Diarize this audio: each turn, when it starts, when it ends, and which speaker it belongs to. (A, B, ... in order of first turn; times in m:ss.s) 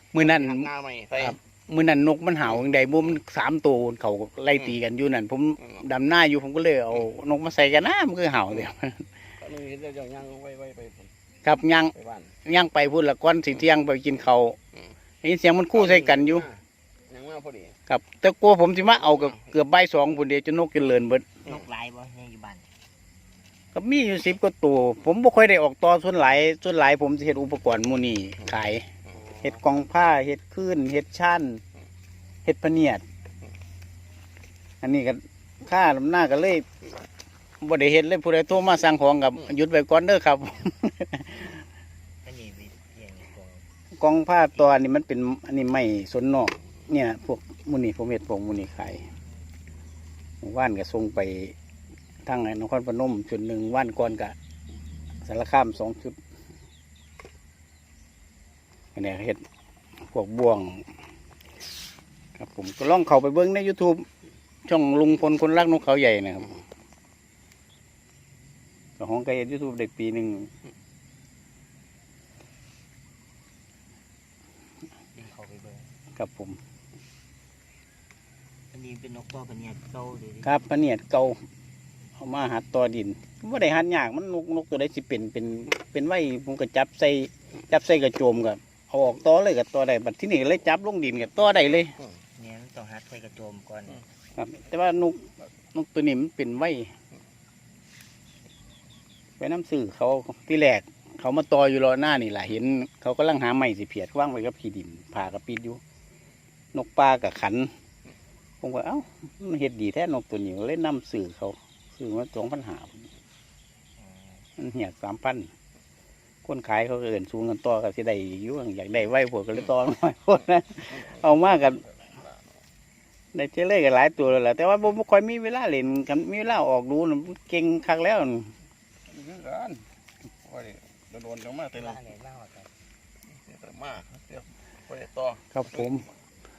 0:00.1-0:09.0 A
0:00.2-0:01.4 B
0:09.4-0:11.1 B
0:11.4-0:11.9 A
0:11.9-0:12.3 B
0:12.4-0:14.6 A
0:15.2-0:16.4 A
0:15.7-0:16.6 B
0:17.1-0:17.8 B
0:17.9-0:21.4 A
0:21.4-0:22.7 C
0:23.7-0:28.8 A
0:29.4-0:31.6 A
0:32.4-0:33.0 A
0:34.8-0:36.6 A
0:37.6-0:41.6 A
0:42.2-0:43.6 C
0:44.0-0:49.0 A
0:50.4-0:51.5 A
0:52.2-0:54.3 A
0:55.2-0:56.2 A
0:58.9-0:59.4 A
1:00.0-1:00.9 A
1:02.4-1:04.1 A
1:04.6-1:06.6 A
1:09.0-1:10.5 A
1:15.2-1:15.9 C
1:16.2-1:16.6 A
1:18.7-1:20.5 C
1:20.4-1:21.4 A
1:22.2-1:32.0 A
1:32.4-1:34.0 C
1:34.4-1:36.9 A
1:39.4-1:45.8 A
1:46.7-1:47.7 A
1:48.6-1:53.1 A
1:54.0-1:54.4 C
1:54.6-1:55.5 A
1:56.4-2:01.8 A
2:01.0-2:02.4 B
2:03.3-2:08.5 A
2:09.1-2:09.8 B
2:10.4-2:12.0 B
2:11.7-2:12.7 C
2:13.4-2:16.0 B
2:15.5-2:16.0 A